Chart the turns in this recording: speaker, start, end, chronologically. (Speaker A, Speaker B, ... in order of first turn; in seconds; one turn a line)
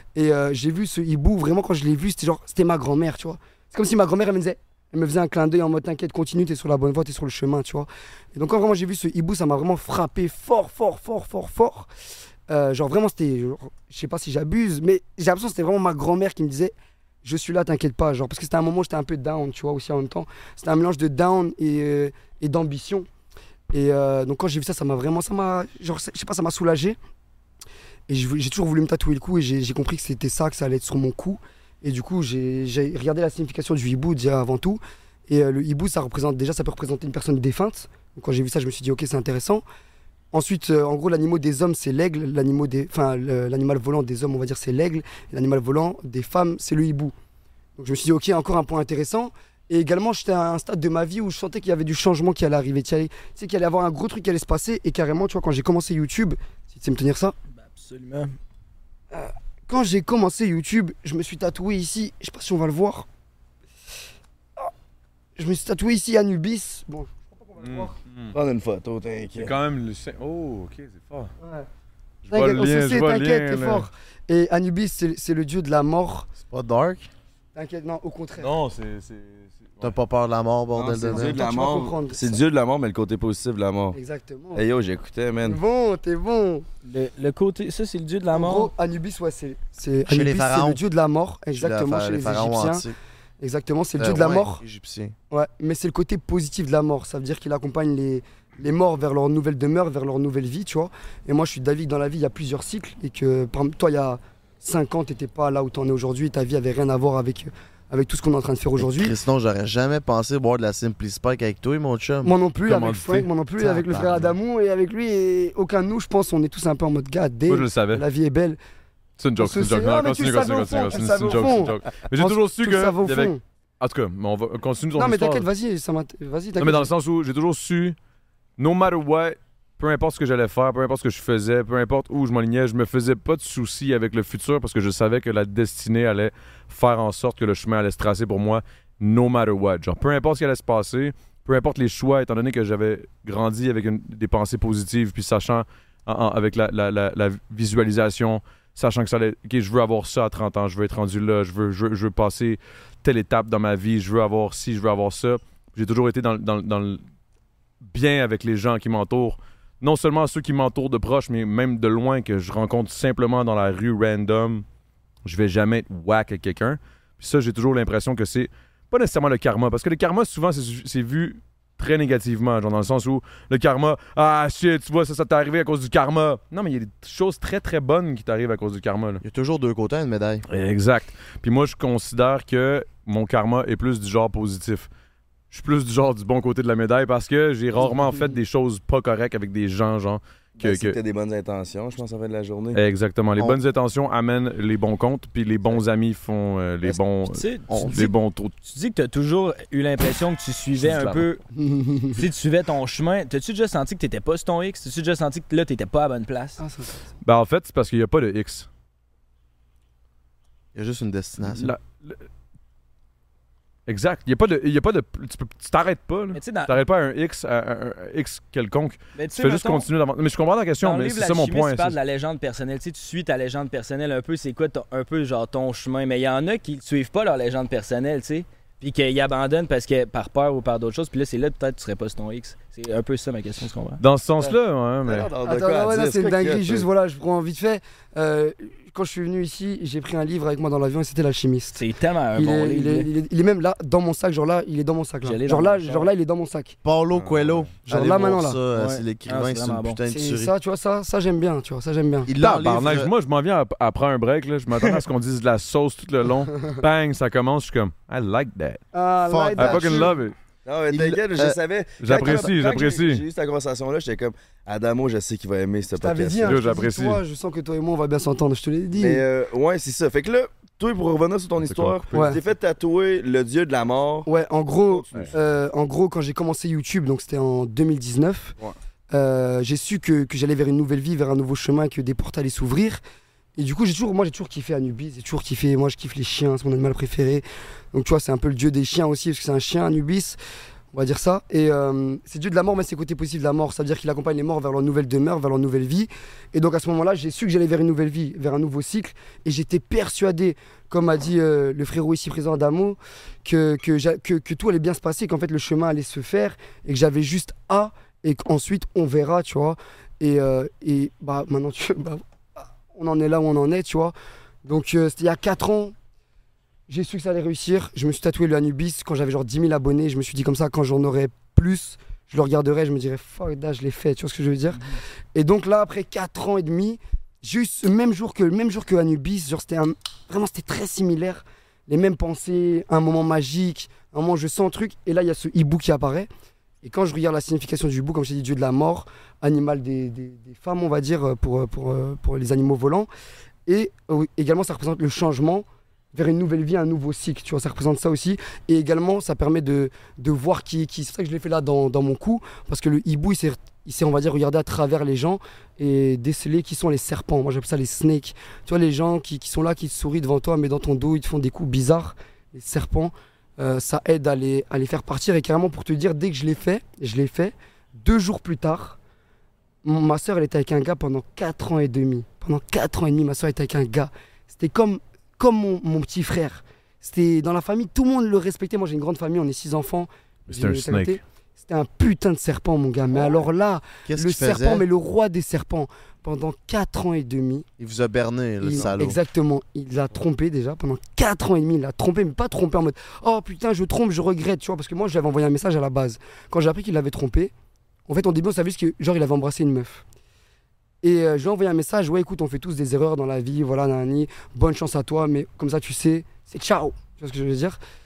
Speaker A: 0.1-11.9
Speaker A: 12.5-23.1
Speaker A: 23.7-27.0
Speaker A: 28.1-39.6
Speaker A: 40.3-47.1
Speaker A: 47.8-57.4
Speaker B: 57.5-58.4
Speaker A: 59.1-63.1
Speaker A: 65.4-67.9
Speaker C: 67.6-68.3
Speaker D: 68.3-69.5
Speaker C: 69.4-71.3
Speaker A: 71.4-71.7
Speaker C: 72.2-73.9
Speaker A: 72.3-76.3
Speaker E: 76.4-77.1
Speaker A: 77.5-78.5
Speaker C: 78.4-79.9
Speaker E: 79.8-81.4
Speaker D: 80.7-84.0
Speaker A: 81.1-82.3
Speaker A: 83.9-84.6
Speaker D: 84.5-85.6
Speaker A: 85.4-86.7
Speaker B: 86.8-88.7
Speaker A: 88.3-92.8
Speaker E: 90.1-90.8
Speaker E: 91.5-92.9
Speaker A: 93.4-94.6
Speaker E: 94.0-95.1
Speaker A: 95.3-109.1
Speaker E: 108.8-112.3
Speaker A: 112.2-118.6
Speaker C: 112.6-113.3
Speaker E: 113.6-114.3
Speaker C: 113.9-114.2
Speaker C: 117.5-118.1
Speaker C: 119.2-125.5
Speaker A: 119.4-123.4
Speaker A: 125.0-126.9
Speaker C: 126.6-128.0
Speaker C: 128.6-157.0
Speaker C: 157.9-164.6
Speaker C: 165.2-179.2
Speaker E: 179.2-180.4
Speaker C: 180.5-184.9
Speaker C: 185.5-191.0
Speaker A: 187.9-188.3
Speaker D: 190.6-192.8
Speaker C: 192.7-198.5
Speaker B: 197.3-198.1
Speaker E: 197.7-198.1
Speaker B: 198.6-201.4
Speaker C: 200.8-201.2
Speaker A: 201.6-202.2
Speaker B: 202.1-206.6
Speaker A: 206.6-207.1
Speaker C: 207.2-208.7
Speaker E: 210.7-211.7
Speaker C: 211.4-212.2
Speaker C: 213.9-222.0
Speaker B: 216.3-216.7
Speaker B: 219.2-219.9
Speaker B: 220.8-234.0
Speaker C: 234.0-235.3
Speaker D: 235.1-236.9
Speaker A: 235.4-241.8
Speaker B: 241.8-243.1
Speaker A: 242.3-246.8
Speaker B: 245.2-246.1
Speaker E: 246.8-250.5
Speaker D: 247.1-247.7
Speaker A: 247.9-248.6
Speaker B: 248.7-250.0
Speaker A: 250.1-252.3
Speaker E: 252.2-253.1
Speaker C: 252.4-258.8
Speaker A: 258.9-260.1
Speaker E: 259.2-260.1
Speaker C: 259.6-260.3
Speaker D: 260.6-266.6
Speaker E: 260.9-261.6
Speaker C: 262.0-263.2
Speaker A: 266.0-269.2
Speaker C: 266.4-267.2
Speaker D: 269.0-274.3
Speaker C: 271.6-272.4
Speaker A: 272.1-272.4
Speaker A: 274.2-278.6
Speaker D: 274.9-275.3
Speaker A: 279.1-283.0
Speaker A: 283.6-290.4
Speaker A: 290.9-314.1
Speaker A: 314.6-315.9
Speaker A: 316.9-336.3
Speaker A: 336.8-343.1
Speaker A: 343.7-369.0
Speaker A: 369.8-387.7
Speaker C: 380.5-381.2
Speaker E: 384.1-384.9
Speaker E: 387.8-389.2
Speaker A: 388.6-397.5
Speaker A: 398.1-400.0
Speaker A: 401.0-407.8